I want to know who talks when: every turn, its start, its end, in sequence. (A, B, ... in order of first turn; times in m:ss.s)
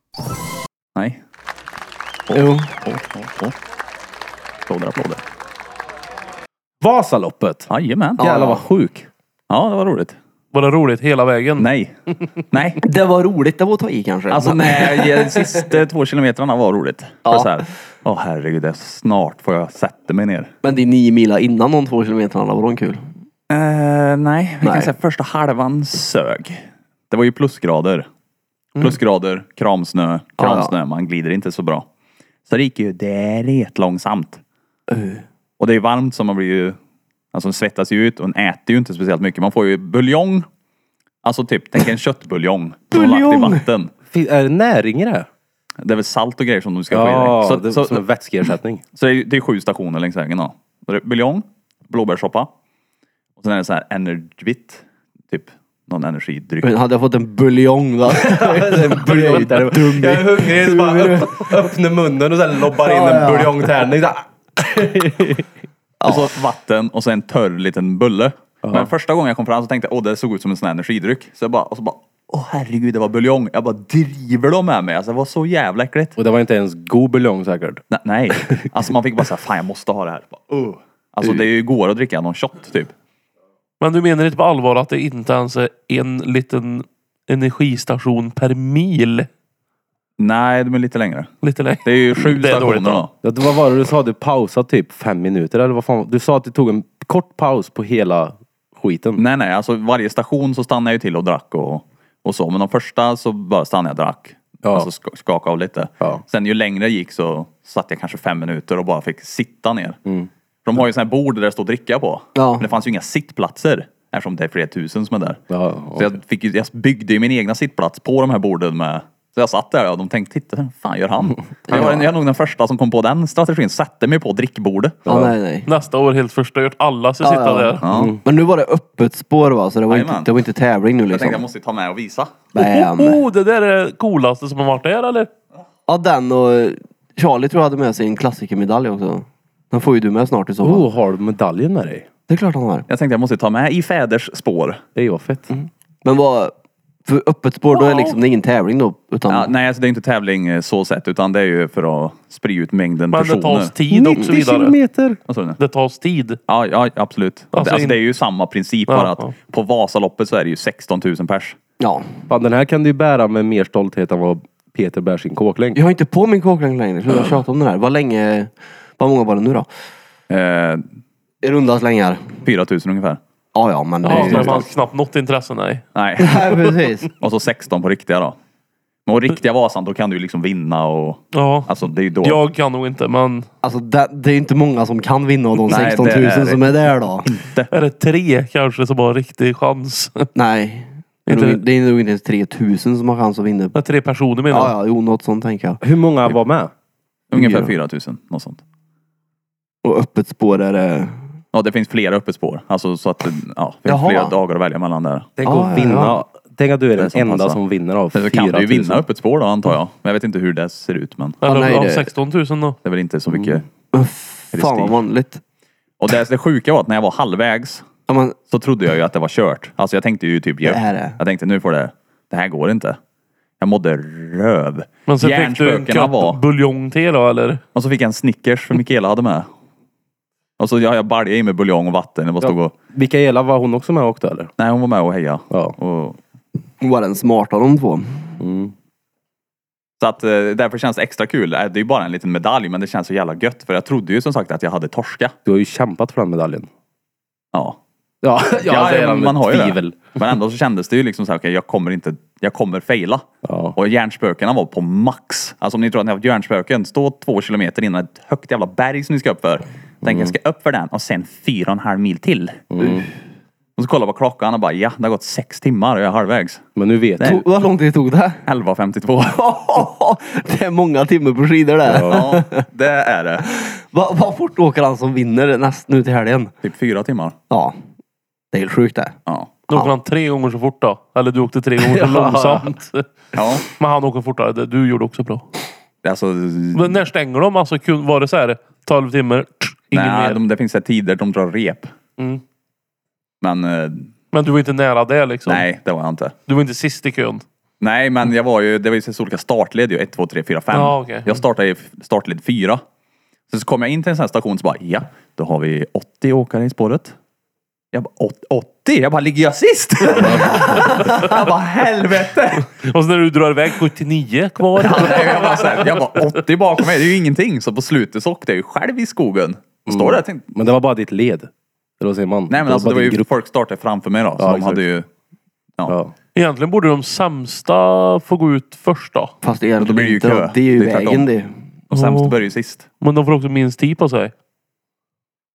0:02.3-0:02.7 A
0:02.8-0:03.5 B
0:04.7-0:05.2 B
0:06.8-0:09.1 C
0:07.7-0:08.3 B
0:08.2-0:08.6 A
0:09.5-0:10.2 B
0:10.5-0:11.7 D
0:11.6-0:11.9 B
0:12.5-0:12.8 B
0:12.9-0:15.5 A
0:14.3-0:20.5 B
0:17.2-0:17.7 A
0:20.6-0:23.0 A
0:23.5-0:28.0 B
0:24.6-0:24.9 A
0:28.8-0:31.9 B
0:30.4-0:30.7 A
0:32.5-0:34.4 B
0:34.9-0:35.2 A
0:35.6-0:36.8 B
0:37.3-0:40.4 B
0:41.2-0:43.9 B
0:42.9-0:43.6 A
0:44.1-0:45.3 C
0:45.8-0:52.5 B
0:46.9-0:48.8 C
0:53.4-0:56.8 B
0:56.6-1:01.5 A
0:58.1-1:05.5 C
1:02.7-1:03.7 A
1:06.0-1:06.3 A
1:06.0-1:16.2 B
1:08.6-1:08.9 C
1:16.2-1:17.8 C
1:17.9-1:22.9 B
1:23.8-1:29.3 D
1:30.2-1:31.3 B
1:31.4-1:33.1 D
1:31.8-1:33.1 B
1:33.2-1:39.2 C
1:39.2-1:50.0 B
1:44.6-1:44.9 C
1:50.6-1:55.4 B
1:52.4-1:52.7 A
1:55.5-1:56.1 C
1:56.0-2:05.1 B
2:01.7-2:02.1 A
2:05.1-2:05.3 C
2:05.1-2:05.7 A
2:05.7-2:07.8 D
2:07.2-2:11.4 A
2:07.8-2:08.1 B
2:07.9-2:08.2 C
2:09.9-2:10.3 B
2:11.1-2:12.5 B
2:12.5-2:13.2 A
2:12.6-2:15.3 D
2:15.9-2:20.9 A
2:20.6-2:22.1 C
2:22.3-2:22.9 A
2:22.9-2:24.8 B
2:25.0-2:25.5 C
2:26.0-2:26.5 A
2:27.1-2:29.5 A
2:27.7-2:28.2 D
2:29.3-2:33.8 B
2:33.1-2:34.8 D
2:33.9-2:35.2 C
2:35.3-2:35.6 B
2:35.6-2:36.4 D
2:36.5-2:41.6 B
2:37.5-2:38.0 D
2:38.9-2:39.3 D
2:41.8-2:42.1 A
2:42.3-2:45.8 C
2:45.8-2:49.7 A
2:50.3-2:50.8 B
2:51.4-2:52.4 A
2:52.4-2:53.2 B
2:53.6-2:54.7 A
2:54.0-2:55.8 D
2:55.9-2:56.6 B
2:56.2-2:57.1 A
2:57.2-2:58.4 B
2:59.1-3:02.4 B
3:01.3-3:03.5 D
3:03.6-3:07.3 A
3:05.7-3:07.7 B
3:07.7-3:10.3 D
3:10.4-3:13.8 A
3:11.3-3:11.6 D
3:13.7-3:14.8 D
3:14.5-3:15.8 A
3:15.8-3:16.7 C
3:17.3-3:18.6 B
3:17.3-3:17.8 A
3:19.8-3:21.3 A
3:21.5-3:25.4 B
3:23.8-3:24.4 A
3:25.4-3:29.0 C
3:25.4-3:26.2 A
3:27.0-3:27.6 B
3:28.1-3:31.4 B
3:31.4-3:32.1 A
3:31.4-3:32.8 D
3:32.8-3:33.7 B
3:33.9-3:35.4 A
3:34.5-3:35.0 B
3:36.0-3:37.9 B
3:38.1-3:38.4 A
3:38.5-3:43.0 B
3:40.6-3:41.2 A
3:43.6-3:46.4 B
3:45.1-3:47.6 D
3:47.8-3:49.4 B
3:50.6-3:52.7 B
3:52.4-3:54.5 C
3:54.6-3:56.2 B
3:55.5-3:55.8 C
3:56.8-3:58.3 A
3:58.4-3:58.7 C
4:00.0-4:05.3 B
4:05.4-4:06.7 C
4:07.5-4:07.8 B
4:08.2-4:10.0 C
4:08.6-4:13.2 B
4:13.4-4:13.8 C
4:13.8-4:22.6 B
4:20.0-4:20.3 C
4:22.7-4:23.1 C
4:23.8-4:26.6 B
4:26.8-4:27.4 C
4:27.2-4:27.4 B
4:27.2-4:28.4 A
4:28.4-4:29.4 B
4:29.4-4:32.6 A
4:31.8-4:32.3 C
4:32.1-4:33.5 B
4:33.6-4:36.5 A
4:36.6-4:37.4 B
4:38.5-4:39.2 A
4:39.3-4:39.6 B
4:39.7-4:43.1 D
4:41.8-4:42.8 C
4:43.3-4:43.7 B
4:43.7-4:45.5 D
4:46.0-4:47.0 B
4:46.7-4:50.4 D
4:49.9-4:51.9 B
4:53.4-4:54.1 B
4:54.3-4:55.7 D
4:55.4-4:56.3 B
4:56.5-4:57.4 D
4:57.8-5:02.8 B
5:00.7-5:01.4 D
5:03.5-5:07.2 B
5:07.9-5:12.7 B
5:12.6-5:16.2 D
5:14.8-5:20.4 B
5:19.9-5:23.3 C
5:22.5-5:25.1 B
5:24.4-5:24.8 C
5:25.9-5:26.1 C
5:26.4-5:29.3 D
5:29.4-5:31.5 A
5:29.8-5:31.3 B
5:31.9-5:32.9 B
5:31.9-5:32.4 D
5:33.0-5:34.3 D